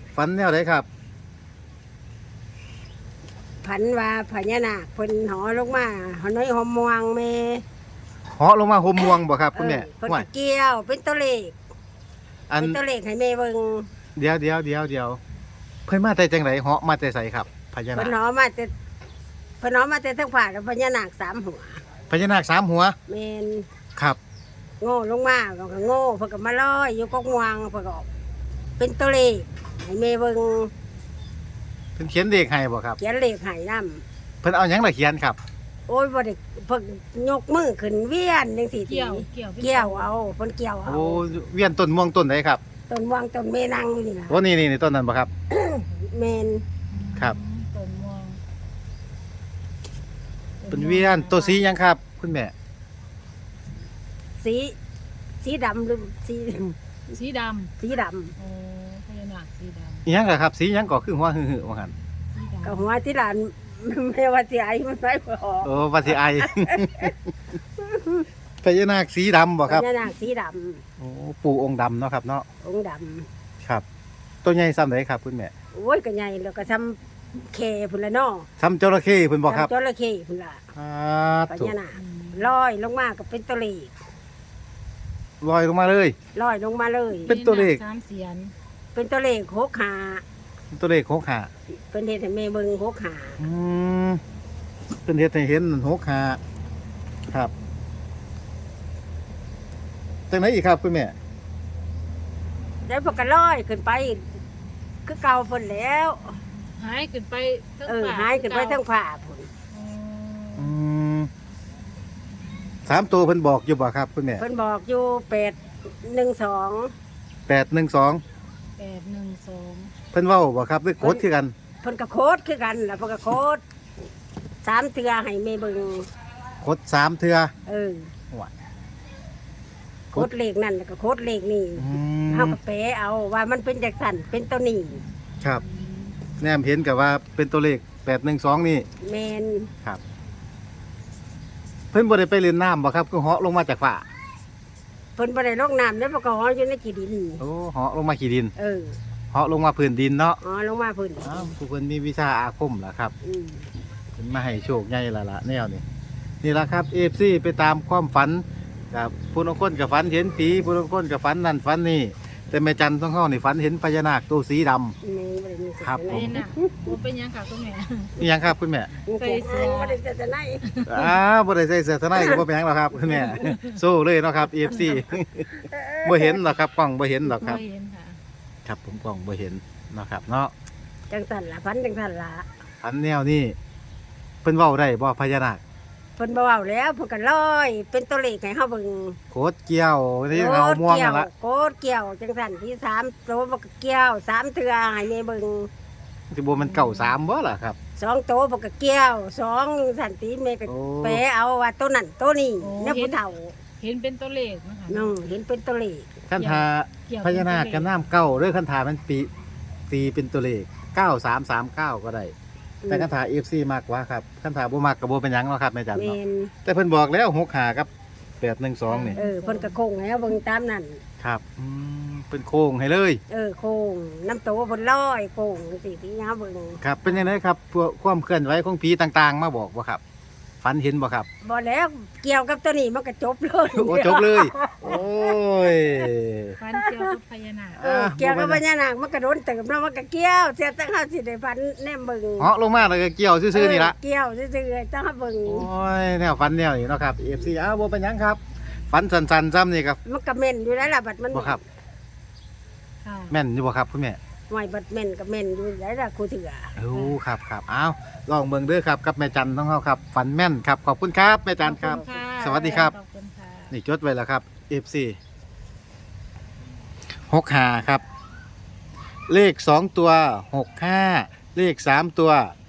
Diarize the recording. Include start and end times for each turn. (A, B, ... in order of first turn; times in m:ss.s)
0:00.1-0:00.9 A
0:03.6-0:07.6 B
0:08.4-0:10.2 A
0:09.5-0:11.6 B
0:12.5-0:12.8 A
0:12.6-0:13.9 B
0:14.2-0:15.2 A
0:15.9-0:18.1 A
0:17.9-0:18.7 B
0:19.6-0:21.8 B
0:22.1-0:23.0 A
0:23.1-0:23.7 B
0:24.8-0:28.1 B
0:28.8-0:30.7 B
0:32.0-0:33.0 A
0:33.0-0:34.0 B
0:34.4-0:35.4 A
0:35.9-0:41.2 B
0:38.8-0:40.1 C
0:40.8-0:42.6 A
0:42.9-0:44.4 B
0:44.3-0:45.3 A
0:45.5-0:46.6 B
0:46.9-0:48.4 C
0:50.6-0:51.6 C
0:50.7-0:52.5 A
0:54.4-0:54.8 B
0:55.4-0:56.8 B
0:57.1-0:57.7 C
0:57.8-0:58.3 B
0:58.4-1:00.0 C
1:00.0-1:01.9 A
1:02.3-1:02.9 C
1:02.6-1:05.8 B
1:05.6-1:07.1 A
1:06.4-1:07.1 B
1:07.8-1:08.2 B
1:08.6-1:09.8 A
1:09.6-1:10.8 B
1:11.0-1:12.4 A
1:12.6-1:13.3 B
1:14.4-1:15.5 A
1:15.7-1:18.5 B
1:18.6-1:19.7 A
1:19.5-1:20.6 B
1:20.7-1:21.7 A
1:21.5-1:23.9 B
1:21.9-1:22.5 C
1:25.4-1:26.2 A
1:26.3-1:27.3 B
1:27.3-1:27.8 A
1:27.3-1:28.5 C
1:28.9-1:30.2 B
1:30.7-1:31.5 A
1:31.9-1:33.4 B
1:33.4-1:34.2 A
1:35.0-1:36.4 A
1:40.3-1:41.1 A
1:42.8-1:44.2 B
1:45.0-1:46.4 B
1:46.8-1:48.8 C
1:47.8-1:49.5 B
1:49.7-1:50.7 C
1:50.6-1:51.3 A
1:52.8-1:54.4 A
1:54.4-1:56.9 B
1:57.5-1:58.2 A
1:58.8-1:59.9 C
2:00.1-2:01.5 A
2:01.8-2:03.6 B
2:04.6-2:06.1 B
2:06.6-2:07.5 A
2:07.6-2:08.1 B
2:10.1-2:15.0 B
2:11.8-2:12.6 A
2:15.6-2:16.1 C
2:16.4-2:18.8 A
2:19.0-2:19.7 B
2:21.9-2:24.0 A
2:25.2-2:27.4 B
2:27.4-2:28.5 A
2:28.6-2:29.0 B
2:29.3-2:30.4 A
2:30.4-2:31.5 B
2:31.2-2:33.1 A
2:33.2-2:33.7 B
2:34.2-2:35.8 A
2:36.4-2:45.0 A
2:45.0-2:46.9 B
2:45.8-2:46.4 A
2:46.1-2:48.2 C
2:48.2-2:48.9 A
2:49.0-2:50.6 B
2:49.2-2:50.0 C
2:50.6-2:51.2 C
2:50.9-2:55.5 A
2:53.1-2:53.8 C
2:55.6-2:56.3 B
2:56.0-2:57.6 A
2:57.2-2:58.2 C
2:58.6-3:00.5 A
3:01.1-3:02.4 B
3:02.8-3:03.6 A
3:04.4-3:05.6 A
3:06.2-3:09.2 B
3:09.3-3:11.3 A
3:10.3-3:15.7 B
3:16.3-3:17.8 A
3:16.6-3:17.2 C
3:18.0-3:23.5 B
3:20.7-3:21.2 A
3:22.6-3:25.2 C
3:24.9-3:26.2 B
3:26.3-3:29.3 A
3:26.4-3:27.9 C
3:29.9-3:32.3 A
3:32.8-3:33.1 B
3:32.9-3:37.9 A
3:35.9-3:36.5 B
3:38.4-3:39.2 A
3:38.9-3:39.8 C
3:39.2-3:41.0 B
3:41.2-3:43.2 A
3:43.3-3:46.8 B
3:46.8-3:50.0 A
3:50.6-3:51.3 A
3:51.4-3:55.0 B
3:53.7-3:56.6 A
3:56.6-3:57.8 C
3:56.7-3:57.1 B
3:57.8-3:58.6 A
3:57.8-4:02.5 B
4:02.4-4:03.9 A
4:03.5-4:05.7 B
4:05.4-4:10.0 A
4:10.0-4:11.6 B
4:11.3-4:11.6 A
4:13.0-4:13.4 C
4:13.3-4:14.2 A
4:14.5-4:16.8 B
4:16.8-4:22.9 A
4:16.9-4:17.2 C
4:21.6-4:23.7 C
4:23.7-4:25.2 A
4:27.3-4:28.0 A
4:29.3-4:32.5 A